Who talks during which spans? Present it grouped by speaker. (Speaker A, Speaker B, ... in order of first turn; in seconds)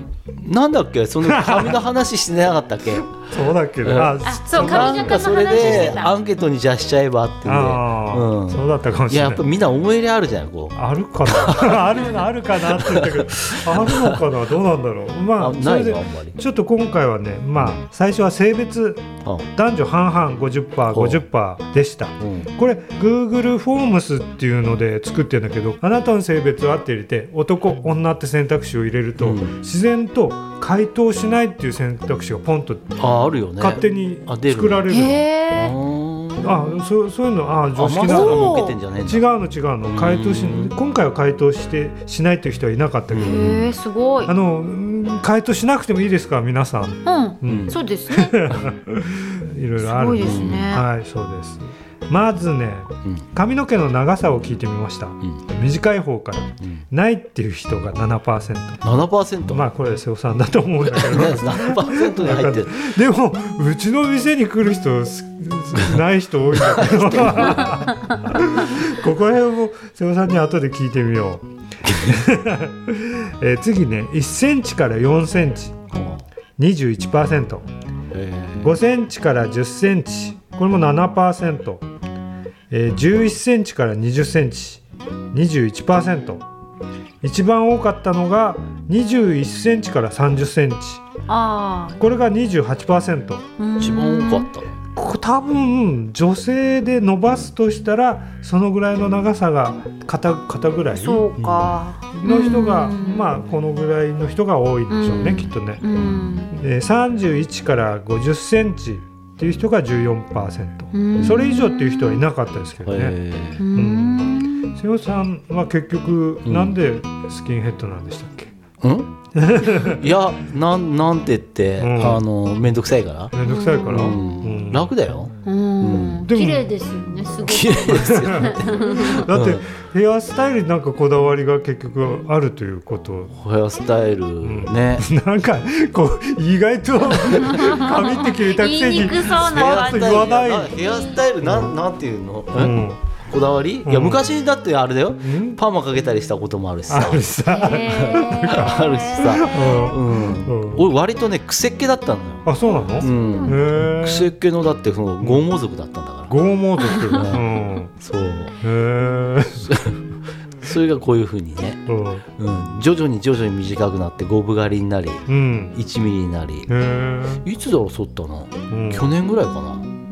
Speaker A: 0.4-3.3, 3.8-11.9, 12.7-14.2, 15.4-16.4, 20.9-21.2, 22.2-22.5, 29.2-29.6, 33.0-36.7, 37.8-39.2, 39.9-40.7, 43.1-43.7, 47.5-47.7, 50.2-50.6, 58.8-59.7, 60.9-63.0, 66.6-67.7, 71.8-72.2, 75.9-76.2, 78.1-78.8, 93.8-94.7, 112.8-113.6, 116.4-116.7, 118.8-119.1, 119.8-123.3, 123.9-126.2, 127.4-129.6, 133.3-135.1, 139.3-152.5, 153.0-156.4, 157.2-157.4, 158.0-158.5, 159.5-160.0, 160.6-161.8, 162.4-166.7, 167.4-169.8
Speaker B: 1.2-1.8, 3.1-6.0, 7.4-9.4, 10.7-33.0, 33.6-35.2, 36.4-43.6, 44.2-58.8, 59.5-75.8, 76.6-77.7, 78.6-81.8, 82.7-84.8, 85.3-86.4, 87.2-91.0, 92.0-93.4, 95.0-101.3, 102.1-105.8, 106.5-113.2, 113.7-118.5, 119.3-120.0, 121.8-122.2, 123.3-124.9, 126.2-133.3, 134.4-140.8, 141.4-141.7, 142.5-143.0, 143.8-144.3, 145.2-145.6, 146.9-150.9, 152.4-154.3, 156.3-157.9, 158.6-159.8, 161.9-162.2, 165.3-165.8, 166.7-167.4, 168.7-169.1
Speaker C: 4.2-6.1, 34.9-35.7, 38.0-38.8, 43.2-44.3, 47.0-48.3, 49.8-50.8, 91.3-92.0, 93.6-94.5, 100.9-103.3, 104.9-106.5, 110.9-112.2, 113.6-114.7, 123.4-124.2, 125.4-129.2, 137.4-141.2, 147.5-149.6, 152.6-153.6, 156.8-157.2